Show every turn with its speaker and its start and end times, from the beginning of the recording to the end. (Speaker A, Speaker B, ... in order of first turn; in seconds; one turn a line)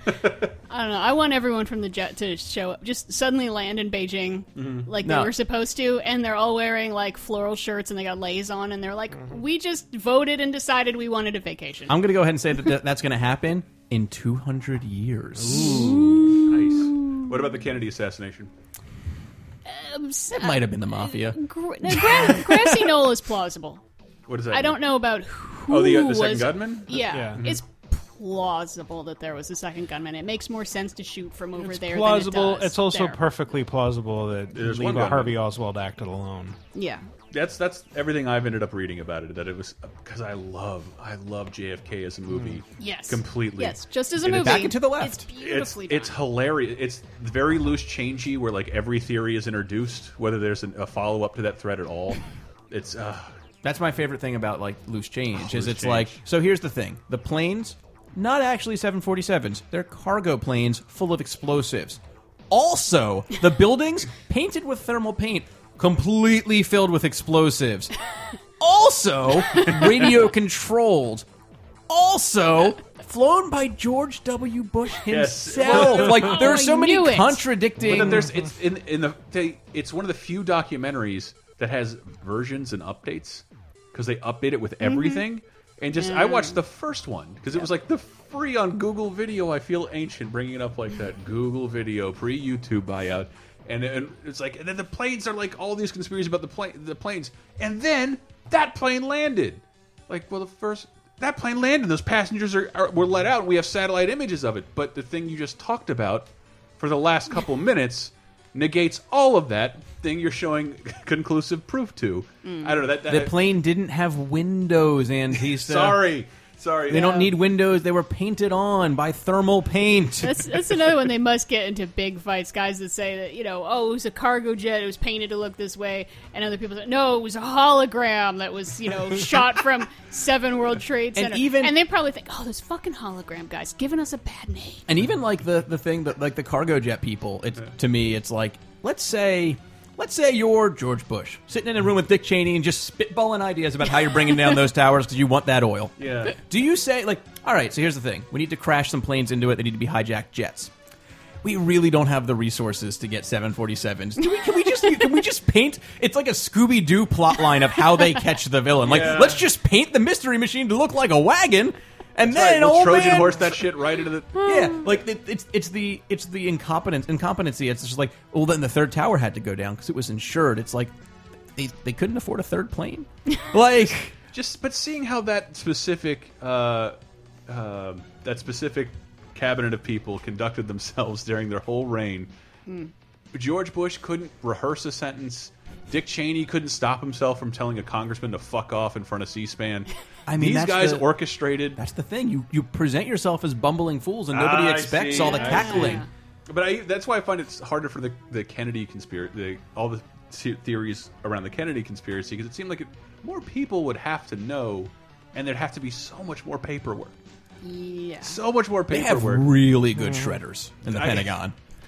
Speaker A: 0.2-0.5
Speaker B: 0.7-11.9
Speaker A: 4.5-4.9
Speaker C: 5.0-5.3
Speaker C: 11.9-16.4
Speaker D: 15.4-16.4
Speaker B: 15.5-17.5
Speaker A: 16.4-18.5
Speaker B: 19.6-23.8
Speaker C: 20.3-22.9
Speaker A: 24.3-24.8
Speaker B: 24.5-33.2
Speaker A: 25.7-27.6
Speaker D: 27.1-27.4
Speaker D: 31.6-36.6
Speaker A: 34.5-35.4
Speaker B: 36.7-37.0
Speaker A: 37.3-44.7
Speaker B: 42.8-46.2
Speaker C: 44.2-45.2
Speaker A: 45.3-53.3
Speaker C: 53.6-67.9
Speaker A: 55.3-56.2
Speaker C: 68.6-71.2
Speaker A: 69.6-69.9
Speaker C: 71.9-78.3
Speaker A: 75.1-76.5
Speaker B: 76.1-77.5
Speaker A: 77.8-113.4
Speaker B: 84.8-85.2
Speaker B: 85.9-86.6
Speaker B: 112.4-112.9
Speaker C: 113.1-116.0
Speaker A: 115.5-117.2
Speaker C: 116.9-120.5
Speaker B: 116.9-117.2
Speaker B: 120.2-134.9
Speaker C: 131.1-131.8
Speaker C: 134.9-150.7
Speaker A: 146.0-146.4
Speaker C: 151.4-163.6
Speaker A: 158.8-159.4
Speaker A: 162.2-164.5
Speaker C: 164.4-170.9
Speaker C: 171.6-174.1
Speaker A: 174.3-176.9
Speaker A: 177.5-182.3
Speaker A: 183.3-191.8
Speaker C: 190.2-196.0
Speaker A: 194.3-207.1
Speaker B: 195.2-196.1
Speaker B: 207.6-208.4
Speaker A: 208.2-209.5
Speaker C: 208.9-211.5
Speaker D: 209.9-210.4
Speaker A: 210.8-211.3